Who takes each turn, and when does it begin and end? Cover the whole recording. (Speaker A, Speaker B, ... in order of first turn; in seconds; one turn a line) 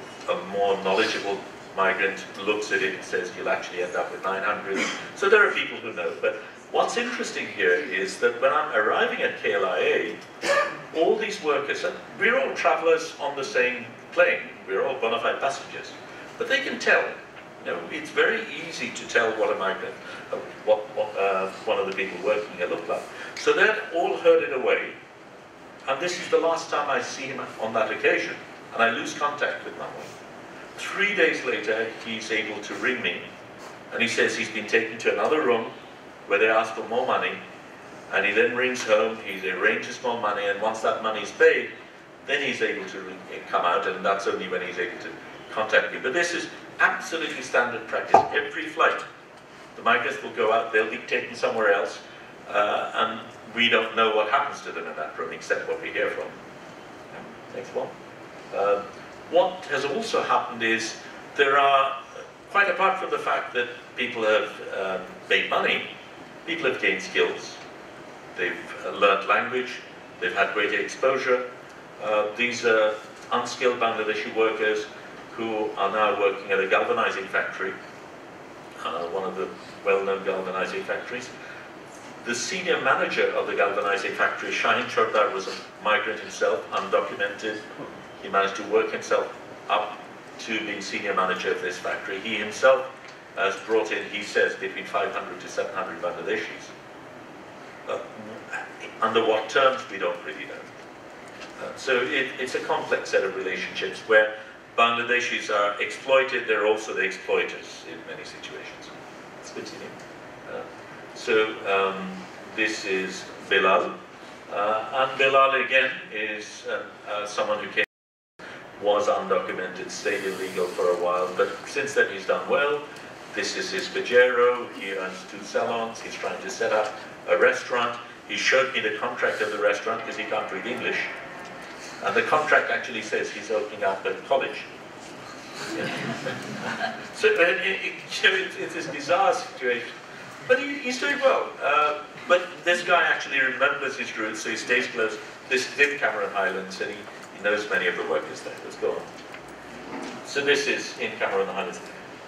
Speaker A: 0.2-10.2
Speaker A: 10.9-24.9
Speaker A: 25.9-30.1
Speaker A: 30.8-33.3
Speaker A: 33.9-35.7
Speaker A: 36.2-37.4
Speaker A: 38.1-41.7
Speaker A: 42.2-49.1
Speaker A: 49.7-56.4
Speaker A: 57.1-57.9
Speaker A: 58.5-65.9
Speaker A: 66.4-67.6
Speaker A: 68.3-71.4
Speaker A: 72.0-77.8
Speaker A: 78.8-81.3
Speaker A: 82.2-87.6
Speaker A: 88.2-96.7
Speaker A: 97.9-100.7
Speaker A: 101.6-108.9
Speaker A: 109.4-109.9
Speaker A: 110.5-113.9
Speaker A: 114.5-117.9
Speaker A: 118.7-131.1
Speaker A: 132.0-134.7
Speaker A: 135.7-136.0
Speaker A: 137.1-139.9
Speaker A: 140.4-149.1
Speaker A: 150.2-151.9